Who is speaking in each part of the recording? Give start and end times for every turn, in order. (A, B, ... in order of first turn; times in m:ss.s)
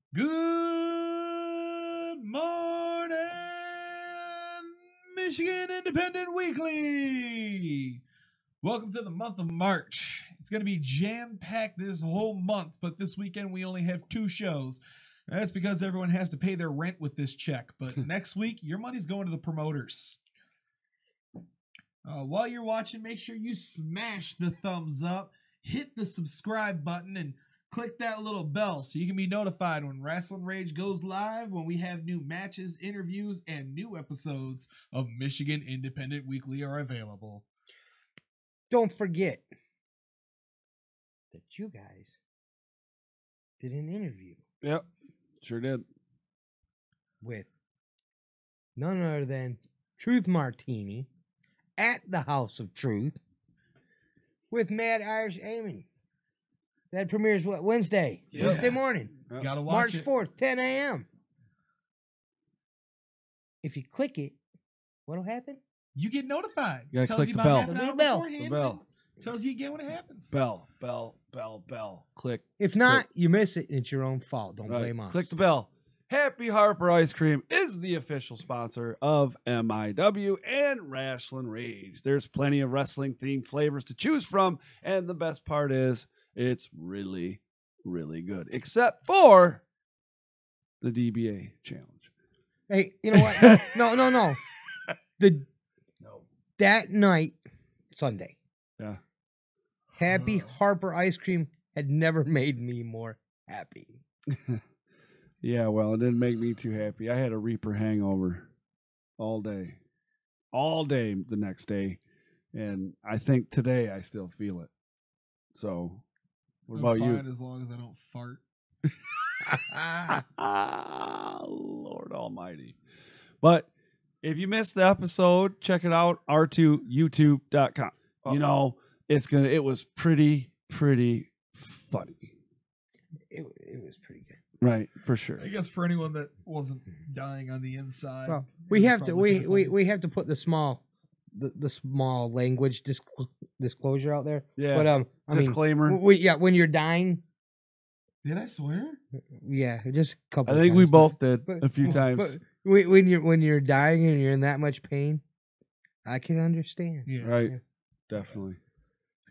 0:00.1-0:08.0 A
0:08.6-0:20.2 A
0:22.0-0:37.4 A
0:38.7-0:39.5 B
0:41.3-0:42.2 B
0:43.6-0:44.4 B
0:45.4-0:45.8 C
0:47.2-0:47.5 B
0:48.8-0:51.1 B
0:51.8-0:53.2 B
0:54.5-0:55.8 B
0:56.9-1:01.0 B
0:58.3-0:59.5 C
0:59.4-1:00.1 A
1:03.6-1:04.4 B
1:05.1-1:05.6 B
1:05.9-1:10.4 A
1:06.9-1:07.7 C
1:07.6-1:08.3 B
1:08.4-1:08.8 C
1:10.3-1:13.0 C
1:12.6-1:15.4 B
1:14.7-1:29.6 C
1:30.8-1:32.1 C
1:32.7-1:34.4 B
1:33.1-1:33.7 C
1:35.2-1:35.4 B
1:36.6-1:37.4 B
1:37.9-1:38.4 B
1:40.0-1:44.0 B
1:40.1-1:40.5 A
1:45.4-1:48.5 C
1:49.2-1:49.8 C
1:50.5-1:52.0 C
1:52.5-1:54.7 C
1:55.5-1:56.0 C
1:56.7-1:57.2 C
1:56.7-1:58.4 A
1:59.5-2:00.2 B
2:00.1-2:02.8 C
2:03.4-2:03.7 C
2:04.2-2:12.3 C
2:13.3-2:14.4 B
2:14.6-2:15.5 C
2:15.4-2:19.8 A
2:18.3-2:20.8 B
2:21.3-2:27.2 B
2:24.6-2:26.0 C
2:28.2-2:29.0 A
2:29.4-2:35.2 B
2:30.4-2:32.4 C
2:36.0-2:37.6 B
2:37.0-2:37.4 A
2:37.2-2:37.5 C
2:38.1-2:38.6 C